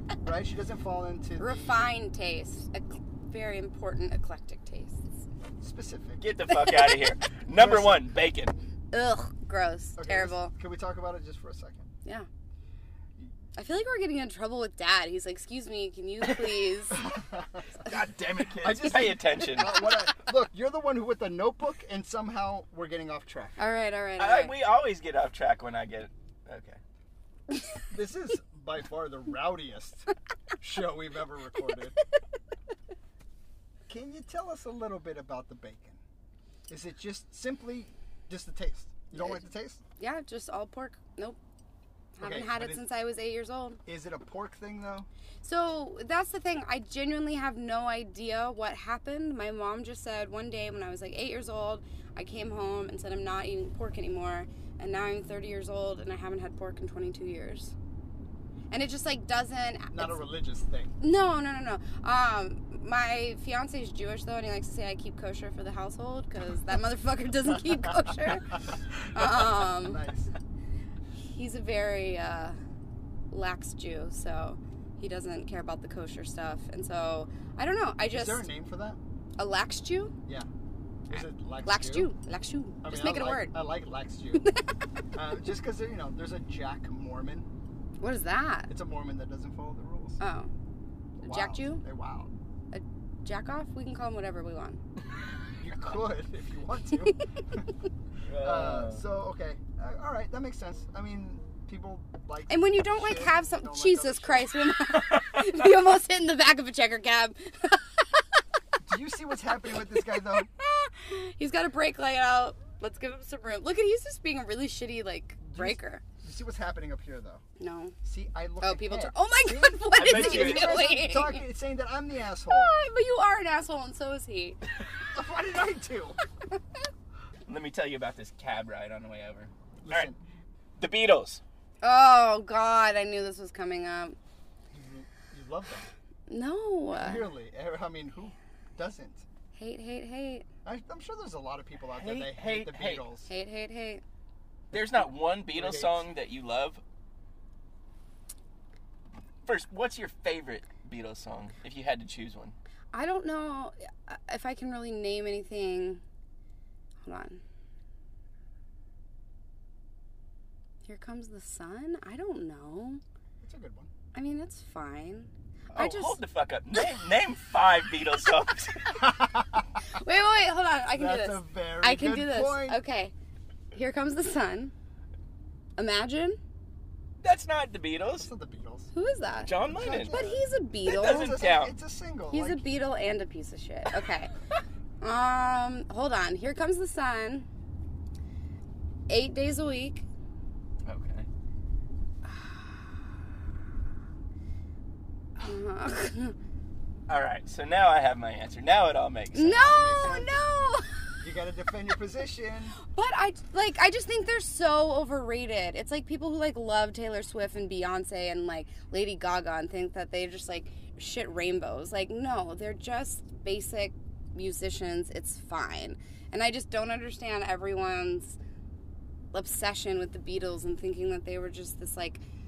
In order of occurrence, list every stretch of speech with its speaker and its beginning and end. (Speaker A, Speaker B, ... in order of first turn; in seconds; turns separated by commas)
Speaker A: 0.2-1.9, Speaker B: 1.4-5.1, Speaker A: 5.6-6.2, Speaker C: 6.2-8.6, Speaker A: 7.5-8.1, Speaker B: 8.9-10.5, Speaker A: 10.0-11.9, Speaker B: 13.6-17.0, Speaker A: 16.9-17.6, Speaker C: 17.8-19.8, Speaker A: 18.6-23.6, Speaker B: 23.6-24.5, Speaker C: 24.2-26.8, Speaker A: 27.9-30.1, Speaker A: 30.6-32.0, Speaker A: 33.9-36.0, Speaker A: 36.7-39.8, Speaker B: 39.1-39.4, Speaker B: 40.0-41.4, Speaker B: 42.1-43.8, Speaker A: 42.2-42.8, Speaker A: 43.9-45.1, Speaker B: 45.4-57.8, Speaker B: 58.7-60.2, Speaker A: 59.9-60.9, Speaker B: 61.0-68.5, Speaker A: 68.7-70.3, Speaker B: 69.1-70.0, Speaker B: 71.2-72.6, Speaker B: 73.3-78.5, Speaker A: 78.1-79.0, Speaker B: 79.4-80.1, Speaker A: 81.1-82.1, Speaker B: 81.1-83.5, Speaker A: 82.8-84.5, Speaker B: 84.4-84.7, Speaker A: 85.1-87.5, Speaker B: 88.0-88.7, Speaker A: 88.7-90.2, Speaker B: 90.2-90.5, Speaker A: 91.2-92.3, Speaker B: 91.2-91.8, Speaker B: 92.7-94.8, Speaker A: 95.6-97.7, Speaker C: 98.2-99.0, Speaker A: 98.4-104.5, Speaker B: 102.5-108.4, Speaker C: 105.1-105.4, Speaker A: 108.8-110.5, Speaker B: 109.7-116.0, Speaker A: 115.4-117.4, Speaker B: 117.6-118.0, Speaker A: 118.0-122.7, Speaker B: 118.6-121.4, Speaker C: 120.0-120.8, Speaker B: 122.5-124.6, Speaker A: 125.1-126.2, Speaker C: 127.5-130.1, Speaker A: 129.8-130.2, Speaker C: 130.8-131.4, Speaker B: 131.8-134.2, Speaker A: 134.7-135.9, Speaker B: 136.3-137.3, Speaker A: 136.9-139.3, Speaker B: 139.6-140.5, Speaker A: 140.7-143.3, Speaker C: 141.9-143.0, Speaker B: 143.3-144.0, Speaker C: 144.7-146.8, Speaker A: 145.5-146.0, Speaker C: 149.5-152.6, Speaker B: 152.9-156.0, Speaker B: 157.0-157.4, Speaker B: 160.8-163.0, Speaker A: 163.4-163.9, Speaker B: 164.1-166.2, Speaker C: 165.7-169.0, Speaker A: 168.9-169.8, Speaker B: 169.8-173.1, Speaker A: 170.9-172.8, Speaker B: 173.7-174.7, Speaker B: 175.8-176.4, Speaker C: 177.2-178.3, Speaker A: 178.2-178.9, Speaker B: 178.9-181.4, Speaker C: 179.4-180.2, Speaker A: 179.7-182.7, Speaker C: 180.9-181.7, Speaker B: 182.3-184.3, Speaker B: 185.0-187.5, Speaker B: 189.1-190.1, Speaker C: 190.8-191.3, Speaker B: 195.4-196.3, Speaker C: 197.1-199.7, Speaker B: 199.3-201.2, Speaker A: 199.5-200.4, Speaker A: 201.2-202.8, Speaker B: 202.8-218.4, Speaker B: 219.3-222.2